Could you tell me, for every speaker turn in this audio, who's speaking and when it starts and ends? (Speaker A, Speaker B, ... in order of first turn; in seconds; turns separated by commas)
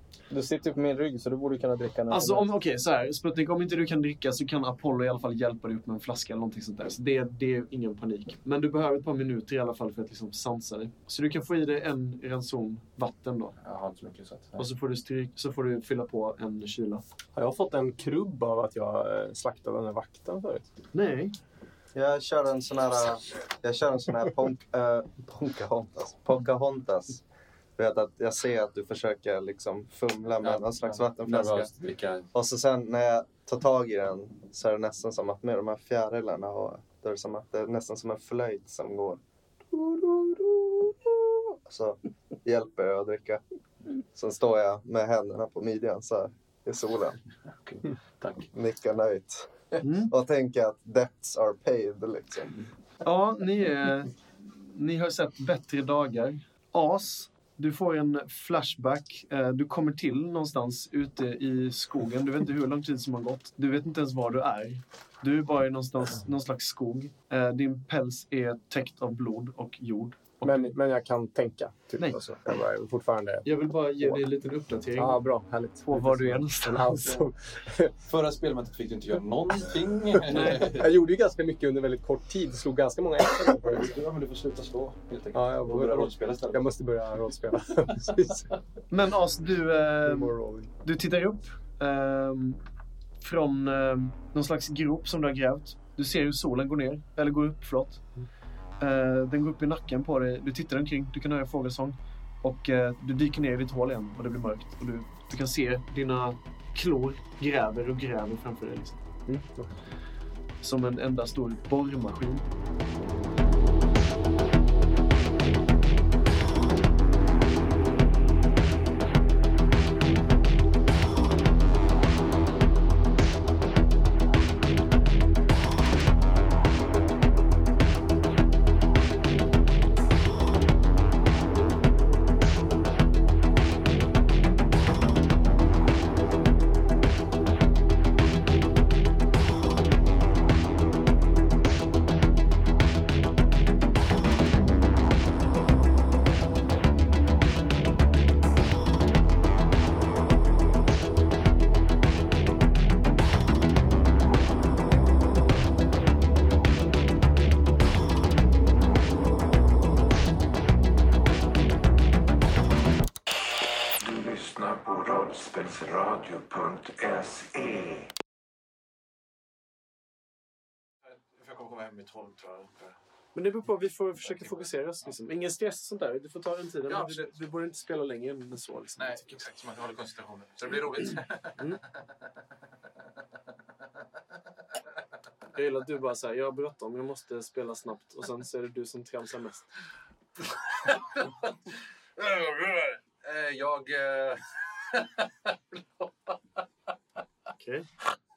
Speaker A: 0.3-2.5, Speaker B: 2.1-13.6, Speaker C: 13.6-14.6, Speaker B: 14.6-17.0, Speaker D: 17.3-20.7, Speaker B: 20.9-21.3, Speaker E: 21.9-27.2, Speaker E: 27.8-31.7, Speaker C: 30.4-32.3, Speaker E: 32.3-39.2, Speaker E: 41.7-43.4, Speaker E: 44.1-47.2, Speaker C: 47.5-48.5, Speaker E: 48.5-52.6, Speaker B: 49.8-50.1, Speaker B: 53.0-70.8, Speaker D: 70.4-73.5, Speaker B: 72.0-72.3, Speaker B: 73.4-75.2, Speaker D: 75.0-77.9, Speaker B: 75.8-77.2, Speaker C: 78.0-81.0, Speaker B: 80.3-80.8, Speaker D: 80.3-83.9, Speaker C: 83.3-86.7, Speaker D: 85.3-88.5, Speaker B: 88.9-92.6, Speaker D: 90.0-90.7, Speaker B: 93.2-98.0, Speaker B: 98.8-109.0, Speaker D: 109.3-109.7, Speaker B: 110.6-112.4, Speaker C: 164.0-168.0, Speaker C: 171.2-172.9, Speaker B: 173.3-179.4, Speaker C: 176.9-177.4, Speaker C: 179.0-181.6, Speaker B: 185.5-189.7, Speaker C: 190.8-191.5, Speaker C: 192.2-196.3, Speaker B: 197.6-197.9